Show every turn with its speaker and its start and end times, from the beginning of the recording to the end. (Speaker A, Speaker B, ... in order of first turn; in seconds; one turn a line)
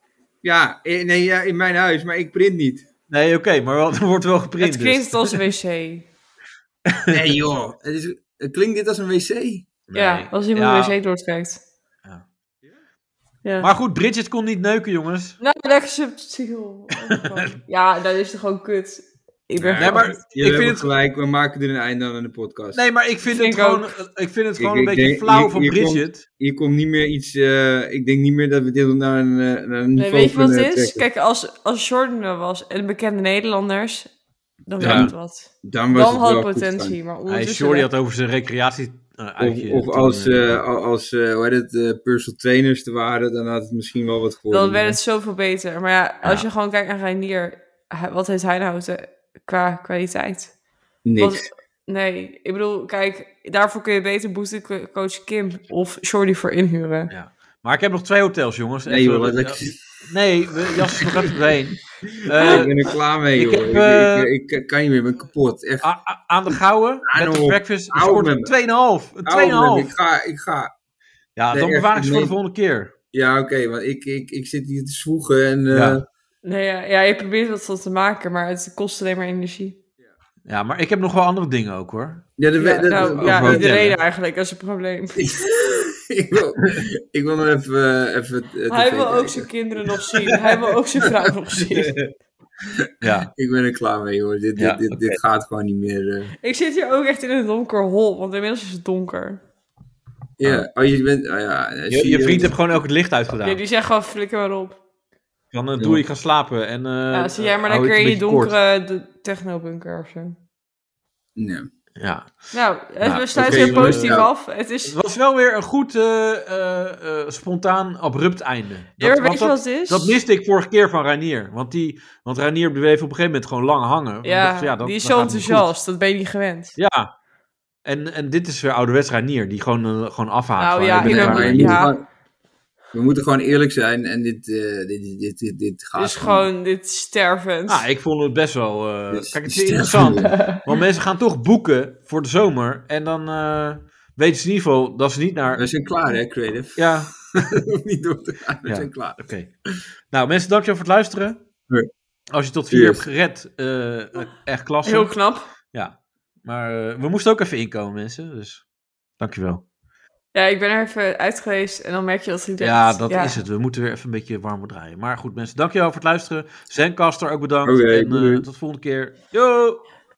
Speaker A: 0.4-2.8
Speaker B: 3.1-5.4
Speaker C: 4.6-6.1
Speaker B: 6.9-7.2
Speaker A: 7.1-9.7
Speaker B: 9.9-11.0
Speaker C: 9.9-11.6
Speaker B: 13.6-15.4
Speaker C: 15.4-20.2
Speaker B: 17.2-17.6
Speaker B: 19.6-20.9
Speaker A: 19.8-22.8
Speaker B: 22.7-26.3
Speaker C: 23.3-23.9
Speaker A: 24.6-31.0
Speaker C: 30.0-34.1
Speaker C: 34.7-37.9
Speaker B: 34.8-35.1
Speaker A: 34.8-35.1
Speaker A: 35.6-37.0
Speaker B: 37.3-40.6
Speaker A: 39.4-45.0
Speaker C: 44.5-50.5
Speaker A: 51.0-51.4
Speaker C: 51.2-57.1
Speaker B: 57.1-62.8
Speaker A: 58.9-59.8
Speaker A: 60.6-61.3
Speaker A: 62.4-65.9
Speaker B: 63.3-64.3
Speaker B: 65.8-69.9
Speaker A: 67.0-68.5
Speaker A: 69.2-70.7
Speaker B: 71.4-72.9
Speaker A: 71.5-72.3
Speaker A: 73.1-76.0
Speaker B: 75.7-76.0
Speaker C: 76.4-79.8
Speaker B: 80.5-82.3
Speaker A: 82.4-83.8
Speaker C: 82.6-85.3
Speaker B: 82.9-84.0
Speaker A: 85.2-91.2
Speaker C: 88.7-92.1
Speaker A: 92.6-96.3
Speaker B: 93.0-93.3
Speaker B: 94.6-95.2
Speaker C: 96.4-99.4
Speaker A: 100.4-102.5
Speaker B: 101.9-103.6
Speaker C: 103.4-104.8
Speaker B: 105.5-108.5
Speaker A: 105.8-106.0
Speaker C: 107.1-110.4
Speaker A: 111.4-111.7
Speaker B: 112.0-112.4
Speaker C: 112.5-115.0
Speaker B: 113.0-114.3
Speaker A: 113.3-114.3
Speaker B: 114.8-125.7
Speaker C: 119.0-120.2
Speaker C: 124.2-126.8
Speaker B: 126.8-127.1
Speaker B: 127.8-131.8
Speaker C: 130.6-131.9
Speaker A: 130.9-132.1
Speaker A: 132.9-136.5
Speaker C: 136.0-137.9
Speaker B: 137.7-145.6
Speaker A: 139.1-140.4
Speaker A: 145.6-149.2
Speaker B: 146.8-147.1
Speaker B: 148.7-149.5
Speaker B: 150.1-151.4
Speaker B: 152.3-155.1
Speaker A: 152.7-153.0
Speaker C: 154.8-155.5
Speaker B: 155.7-158.6
Speaker B: 159.2-159.6
Speaker C: 160.3-163.4
Speaker B: 162.6-169.8
Speaker A: 167.6-168.4